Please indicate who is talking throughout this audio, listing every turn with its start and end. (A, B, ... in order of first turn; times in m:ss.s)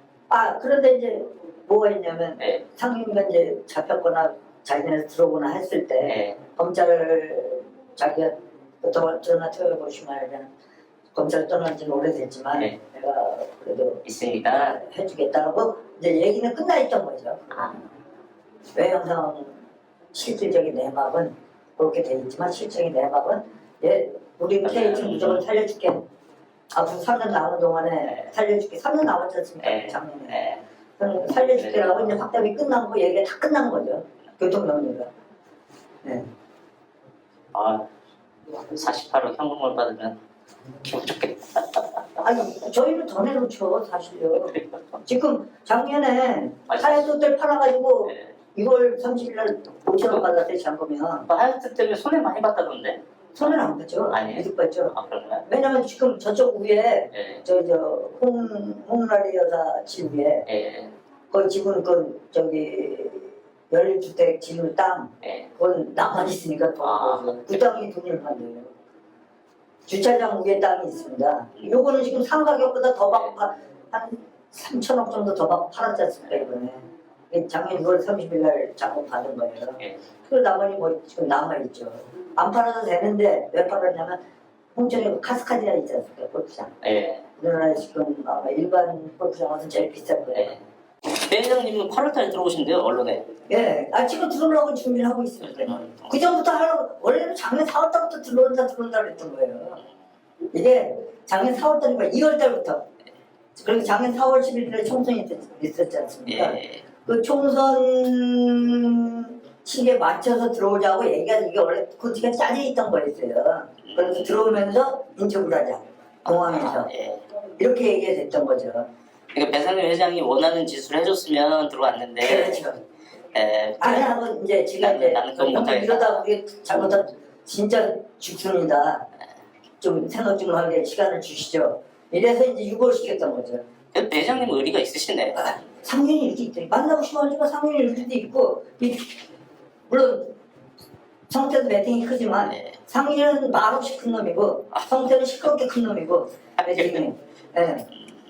0:00.3-0:10.5 A
0:06.0-0:06.4 B
0:11.1-0:17.6 A
0:14.0-0:14.8 B
0:18.7-0:19.6 A
0:20.1-0:26.0 A
0:24.6-0:25.4 B
0:26.7-0:30.4 A
0:29.6-0:30.6 B
0:31.0-0:35.1 A
0:31.5-0:32.0 B
0:37.5-0:37.9 B
0:38.5-0:40.2 B
0:40.8-0:42.0 B
0:42.2-0:51.3 A
0:44.5-0:44.8 B
0:46.7-0:47.0 B
0:51.3-0:53.6 B
0:53.4-0:54.9 A
0:54.1-0:55.4 B
0:55.5-1:00.4 A
0:57.1-0:57.4 B
1:00.5-1:00.9 B
1:01.3-1:08.7 A
1:05.2-1:05.5 B
1:06.8-1:07.6 B
1:09.9-1:24.2 A
1:24.7-1:26.7 A
1:26.8-1:27.2 B
1:27.4-1:30.6 A
1:30.3-1:33.3 B
1:33.5-1:39.8 A
1:35.7-1:36.1 B
1:40.5-1:42.8 A
1:43.6-1:56.9 A
1:46.3-1:46.8 B
1:53.8-1:54.5 B
1:56.3-1:57.2 B
1:57.6-1:58.9 A
1:59.3-2:02.6 B
2:02.2-2:02.8 A
2:03.3-2:04.1 B
2:03.8-2:09.0 A
2:04.8-2:06.2 B
2:09.8-2:13.6 A
2:13.9-2:15.6 B
2:15.4-2:19.2 A
2:19.9-2:20.3 A
2:21.3-2:27.9 A
2:26.6-2:27.1 B